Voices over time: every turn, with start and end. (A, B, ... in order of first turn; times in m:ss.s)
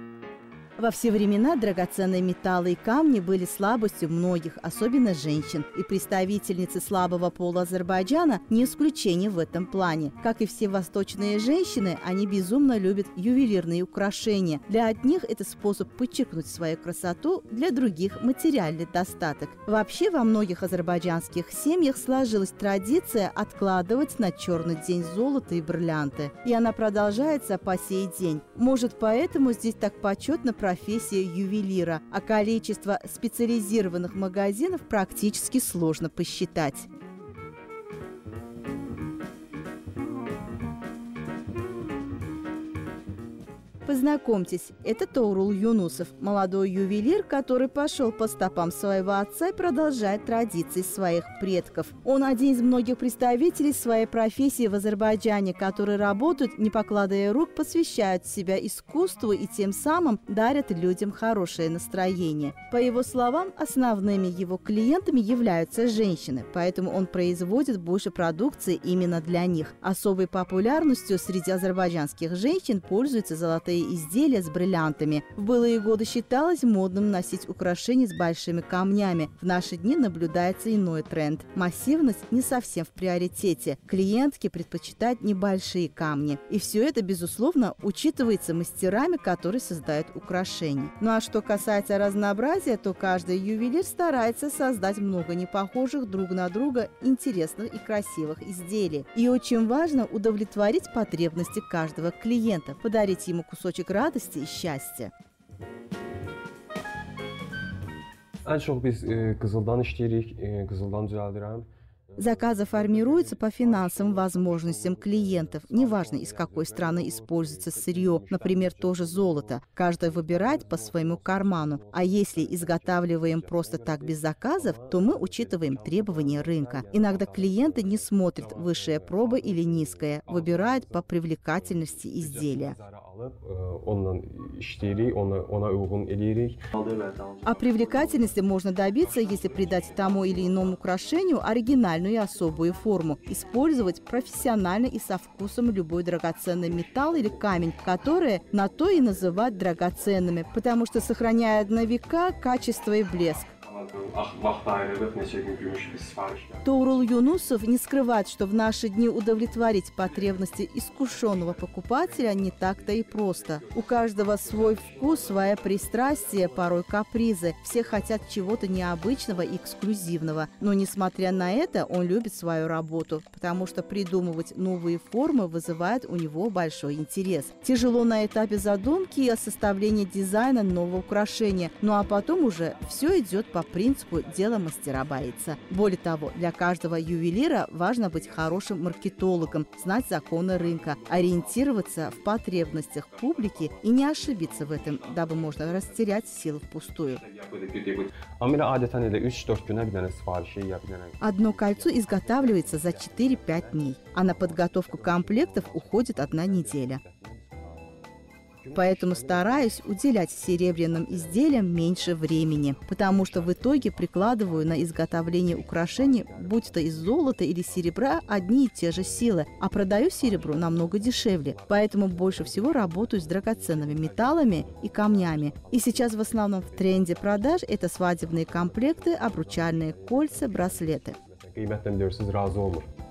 0:00.8-0:36.9 A
0:43.8-1:45.1 A
1:48.4-2:18.3 B
1:52.2-2:12.8 A
2:17.4-2:33.5 A
2:19.0-2:21.4 B
2:26.6-2:32.0 B
2:33.5-2:37.1 B
2:36.6-3:17.2 A
2:40.0-2:46.8 B
2:47.8-2:48.1 B
3:02.3-3:06.0 B
3:08.0-3:15.9 B
3:17.0-3:28.0 B
3:21.2-3:27.0 A
3:28.6-3:52.9 B
3:28.7-3:51.2 A